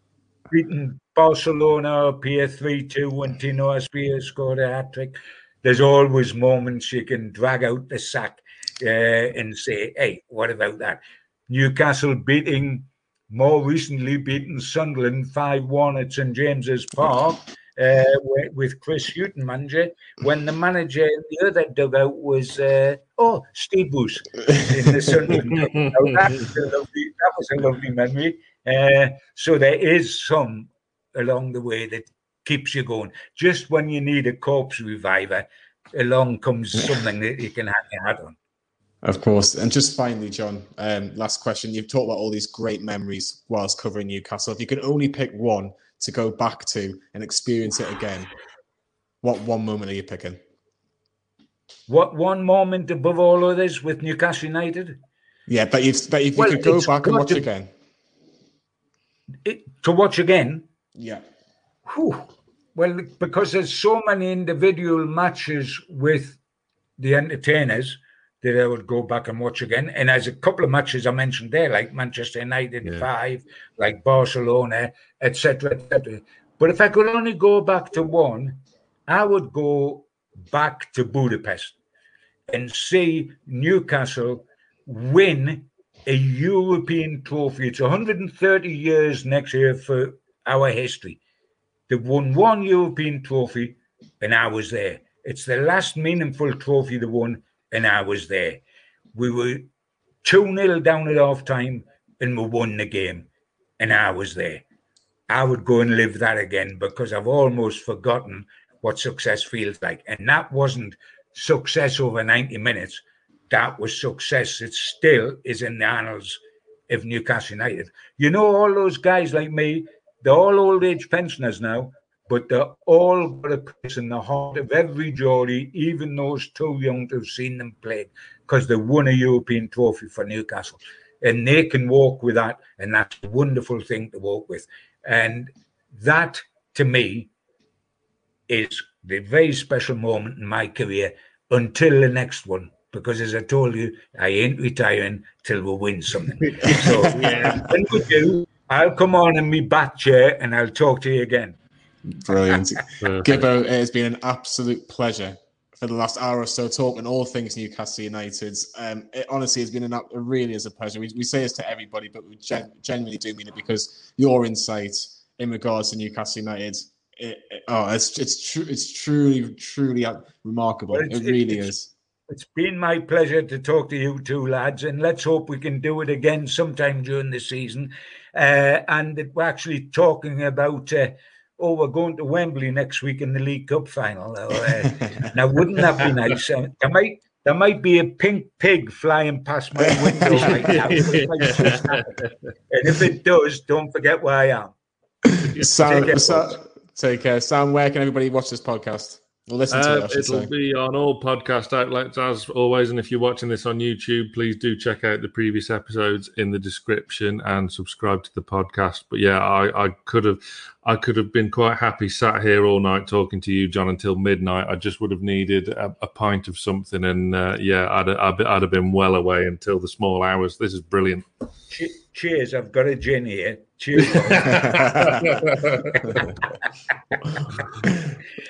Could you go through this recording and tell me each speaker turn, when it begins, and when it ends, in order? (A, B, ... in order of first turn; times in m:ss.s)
0:00.5-0:38.4 A
0:39.0-0:48.3 B
0:49.2-0:50.4 B
0:51.9-0:55.0 A
0:55.5-0:57.7 B
0:56.4-0:57.5 A
0:59.4-1:00.7 A
1:01.0-1:01.2 B
1:01.9-1:06.4 A
1:07.0-1:21.8 A
1:22.5-1:31.2 A
1:31.9-1:38.6 A
1:39.2-1:39.7 A
1:40.2-1:43.3 A
1:43.8-1:44.6 A
1:45.3-2:17.3 A
2:18.5-2:31.6 A
2:26.5-2:27.7 C
2:26.8-2:27.4 B
2:32.1-2:51.9 B
2:33.0-2:33.3 C
2:50.9-2:51.7 A
2:52.3-3:12.1 A
3:10.2-3:11.0 B
3:10.4-3:12.3 C
3:12.7-3:14.7 A
3:15.2-3:20.5 B
3:15.8-3:16.6 A
3:19.7-3:41.3 C
3:41.7-3:45.1 A
3:44.3-3:46.2 C
3:44.4-3:45.2 B
3:46.1-3:46.4 A
3:47.8-3:48.2 B